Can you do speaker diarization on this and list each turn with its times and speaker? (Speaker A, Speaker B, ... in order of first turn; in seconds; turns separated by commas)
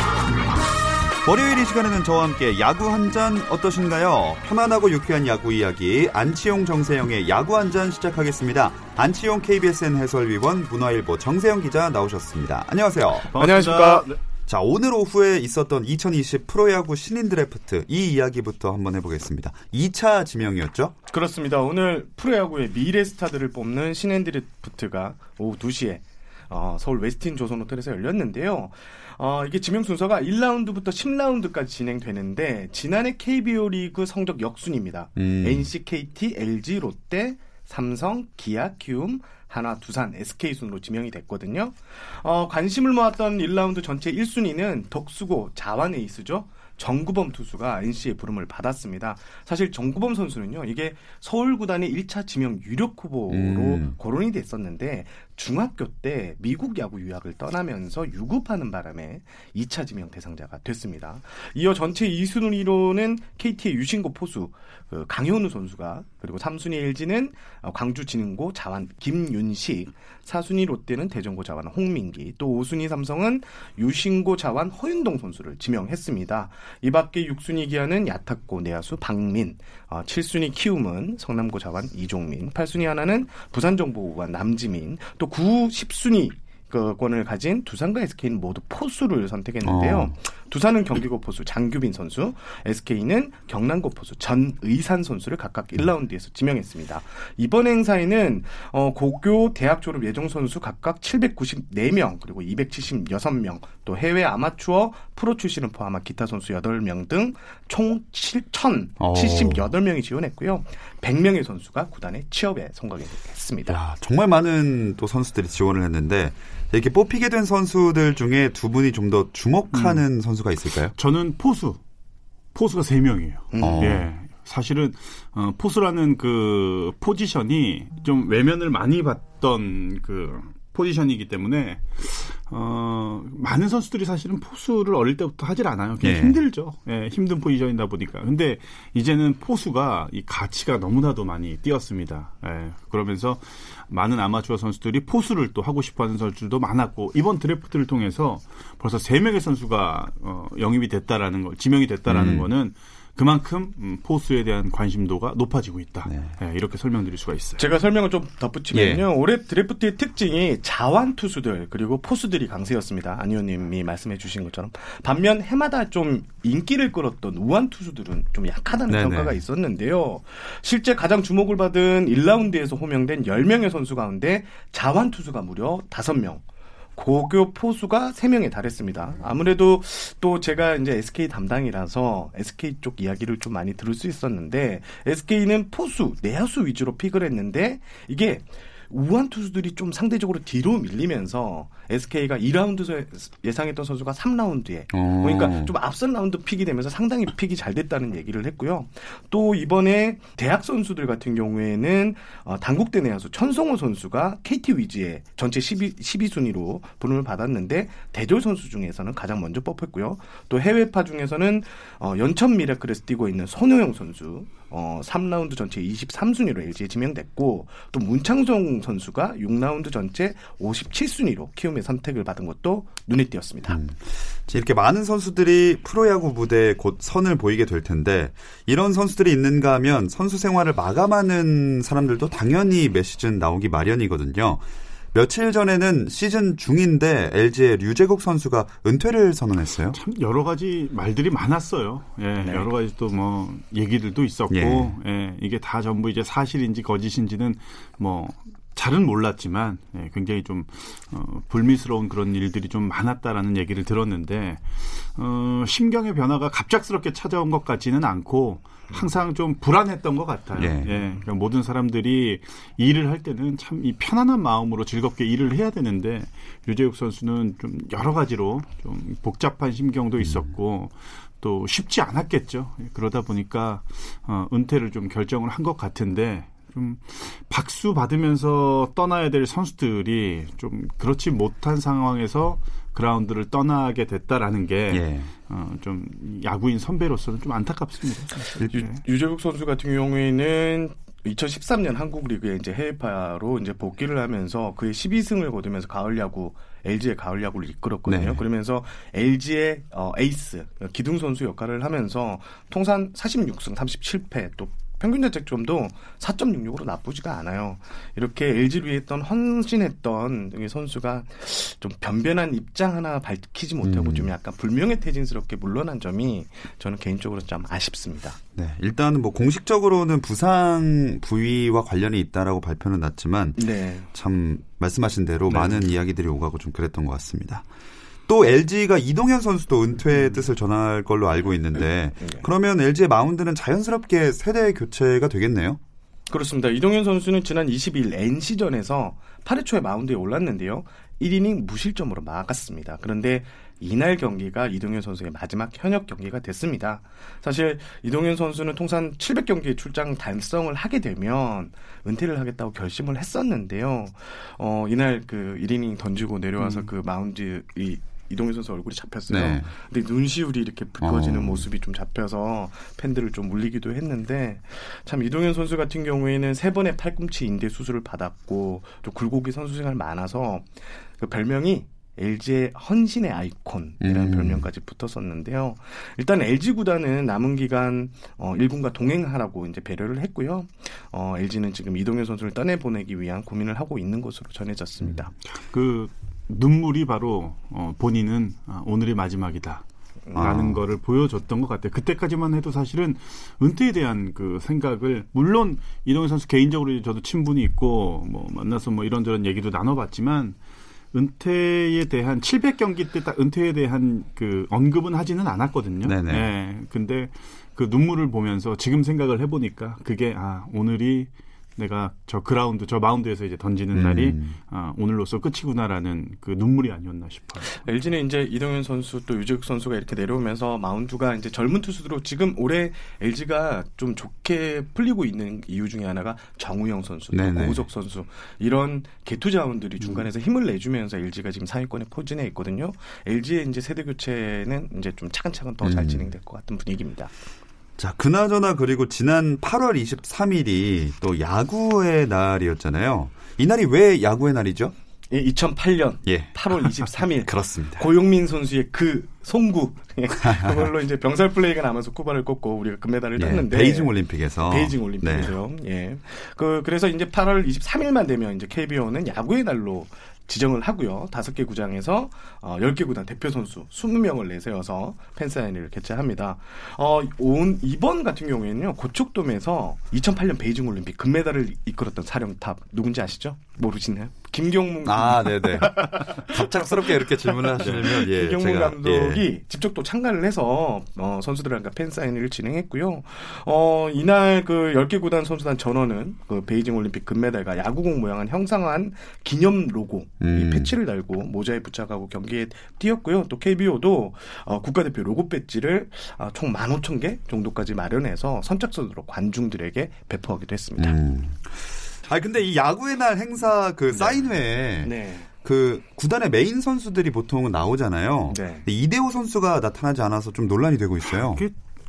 Speaker A: 1.2-13.3, Speaker B: 13.3-14.2, Speaker C: 13.3-14.1, Speaker A: 14.5-20.9, Speaker C: 21.1-113.8, Speaker A: 35.1-35.7, Speaker A: 53.3-53.9, Speaker A: 89.6-90.1, Speaker A: 109.0-109.7, Speaker A: 113.7-120.9, Speaker B: 119.7-120.0, Speaker B: 120.9-121.8, Speaker B: 122.5-157.7, Speaker C: 123.5-124.0, Speaker A: 123.6-124.1, Speaker A: 136.0-136.4, Speaker A: 152.1-152.5, Speaker A: 156.1-156.3, Speaker C: 157.6-176.4, Speaker A: 158.7-159.0, Speaker A: 168.9-169.4, Speaker C: 176.9-223.8, Speaker A: 194.9-195.7, Speaker A: 223.7-240.0, Speaker B: 239.9-288.9, Speaker C: 242.4-242.7, Speaker A: 244.5-244.9, Speaker A: 260.6-261.0, Speaker A: 284.9-285.3, Speaker C: 288.6-318.4, Speaker A: 298.1-298.4, Speaker A: 313.8-314.3, Speaker A: 318.5-327.6, Speaker C: 323.6-324.1, Speaker C: 325.5-325.9, Speaker A: 328.3-335.8, Speaker C: 332.2-332.4, Speaker C: 336.3-385.3, Speaker A: 359.3-359.7, Speaker A: 361.0-361.6, Speaker A: 374.0-374.6, Speaker B: 385.4-389.8, Speaker A: 390.3-390.8, Speaker B: 390.4-400.6, Speaker B: 401.1-417.8, Speaker A: 406.0-406.5, Speaker A: 413.9-414.6, Speaker C: 417.7-437.3, Speaker A: 427.3-427.9, Speaker A: 435.8-436.3, Speaker A: 438.0-444.9, Speaker C: 445.3-501.2, Speaker A: 446.2-448.1, Speaker A: 450.4-450.9, Speaker A: 453.4-455.5, Speaker A: 475.0-479.4, Speaker B: 477.8-478.1, Speaker A: 490.4-490.9, Speaker A: 501.0-511.6, Speaker C: 504.1-504.4, Speaker C: 505.0-505.5, Speaker C: 508.5-508.9, Speaker B: 511.2-511.8